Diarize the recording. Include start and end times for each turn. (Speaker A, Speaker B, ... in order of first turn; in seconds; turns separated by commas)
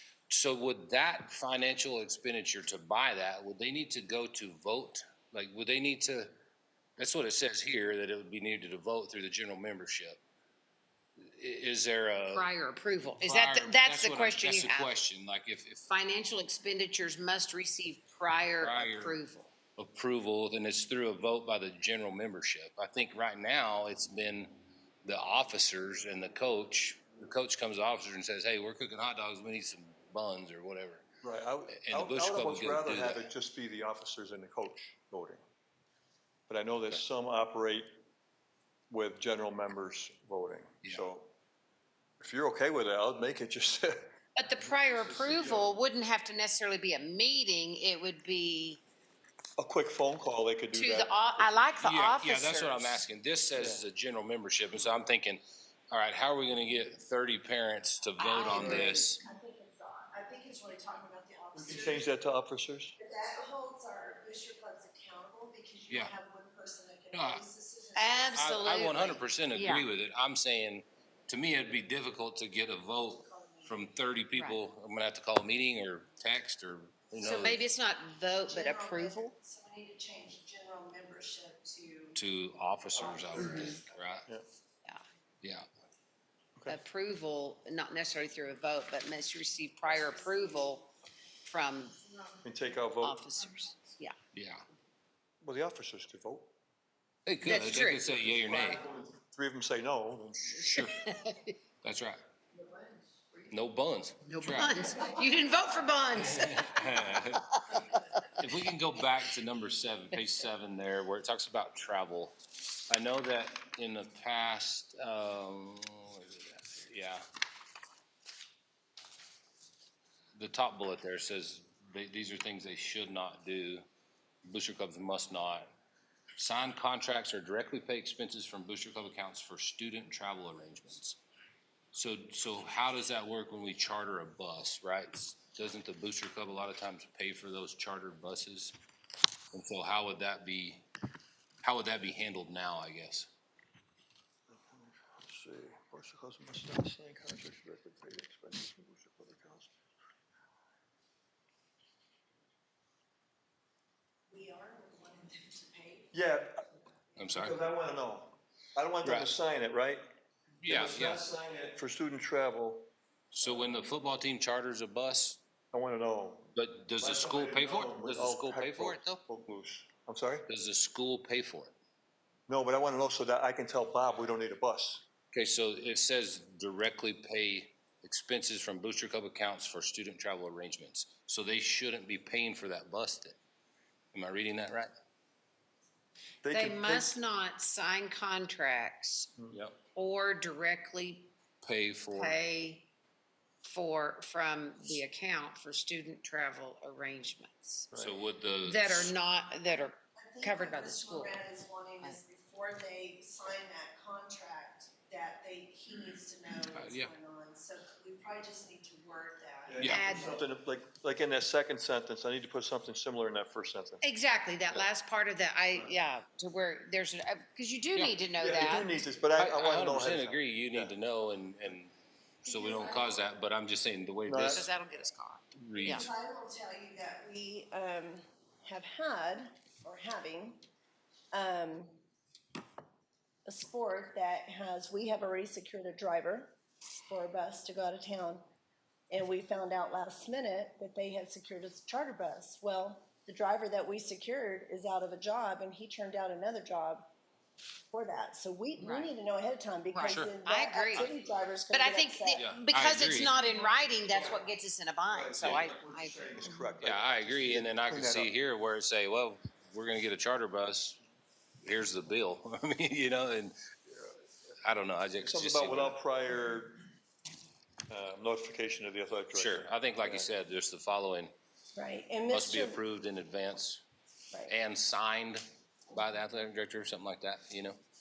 Speaker A: 0.3-6.3, Speaker A: 7.0-10.2, Speaker A: 11.2-12.5, Speaker B: 12.3-14.9, Speaker A: 13.2-15.8, Speaker B: 15.9-19.5, Speaker A: 18.6-19.2, Speaker A: 19.8-31.1, Speaker C: 31.2-35.4, Speaker A: 31.7-33.3, Speaker C: 36.5-37.9, Speaker C: 38.9-41.3, Speaker C: 42.2-44.1, Speaker B: 44.4-48.8, Speaker C: 44.8-45.8, Speaker C: 49.6-51.7, Speaker B: 50.7-53.0, Speaker A: 51.8-59.2, Speaker C: 53.5-53.8, Speaker B: 58.2-59.0, Speaker C: 58.5-58.9, Speaker D: 58.5-62.1, Speaker C: 61.5-63.0, Speaker D: 63.0-69.2, Speaker A: 65.9-66.2, Speaker A: 67.1-67.5, Speaker B: 68.0-69.9, Speaker A: 68.3-77.6, Speaker D: 73.2-73.8, Speaker B: 74.3-74.6, Speaker B: 77.2-79.3, Speaker D: 78.5-82.2, Speaker A: 82.2-84.3, Speaker D: 83.0-83.7, Speaker A: 85.4-85.7, Speaker B: 86.7-90.9, Speaker D: 89.9-90.5, Speaker B: 91.5-92.0, Speaker C: 92.5-93.2, Speaker B: 93.0-94.2, Speaker A: 94.3-94.7, Speaker C: 95.4-96.5, Speaker A: 97.3-98.8, Speaker B: 97.4-98.1, Speaker C: 98.2-100.9, Speaker A: 100.5-101.0, Speaker B: 100.7-101.5, Speaker A: 101.8-102.2, Speaker A: 103.5-104.8, Speaker B: 104.3-107.8, Speaker A: 106.2-112.4, Speaker A: 112.9-117.2, Speaker A: 120.4-123.8, Speaker A: 124.5-125.7, Speaker A: 126.4-131.2, Speaker A: 131.9-138.8, Speaker A: 139.5-140.9, Speaker A: 141.6-143.3, Speaker C: 144.5-149.7, Speaker D: 154.3-156.2, Speaker C: 156.1-156.7, Speaker A: 157.2-157.6, Speaker C: 157.4-160.1, Speaker A: 159.0-159.3, Speaker A: 160.6-161.3, Speaker C: 160.7-162.9, Speaker A: 163.3-165.4, Speaker C: 163.4-163.8, Speaker C: 165.7-170.5, Speaker A: 166.6-169.2, Speaker A: 170.5-171.7, Speaker C: 172.5-175.0, Speaker A: 175.3-183.4, Speaker A: 184.1-184.9, Speaker C: 186.4-187.2, Speaker B: 186.5-189.3, Speaker A: 189.5-189.8, Speaker B: 189.9-191.3, Speaker A: 191.6-192.4, Speaker B: 192.1-192.9, Speaker B: 193.6-197.9, Speaker C: 197.9-198.2, Speaker A: 197.9-199.1, Speaker B: 198.6-201.4, Speaker D: 200.2-210.4, Speaker A: 206.7-207.1, Speaker C: 209.7-214.0, Speaker A: 209.8-210.1, Speaker B: 209.8-210.4, Speaker B: 214.0-219.0, Speaker C: 218.4-220.9, Speaker A: 219.4-221.9, Speaker A: 222.4-224.7, Speaker D: 222.4-223.1, Speaker C: 224.3-224.6, Speaker B: 224.4-226.1, Speaker A: 225.6-226.1, Speaker D: 225.8-230.6, Speaker D: 231.3-231.9, Speaker D: 233.5-238.4, Speaker D: 239.1-247.1, Speaker D: 247.9-252.5, Speaker B: 248.8-249.1, Speaker B: 249.9-251.1, Speaker A: 250.0-250.3, Speaker B: 251.7-256.6, Speaker A: 252.4-253.4, Speaker C: 254.1-254.5, Speaker C: 255.1-258.3, Speaker A: 256.8-261.0, Speaker A: 261.6-263.6, Speaker A: 264.6-266.0, Speaker C: 265.2-266.9, Speaker C: 267.9-270.3, Speaker A: 269.3-271.3, Speaker D: 271.8-272.8, Speaker A: 272.3-273.8, Speaker A: 274.5-277.8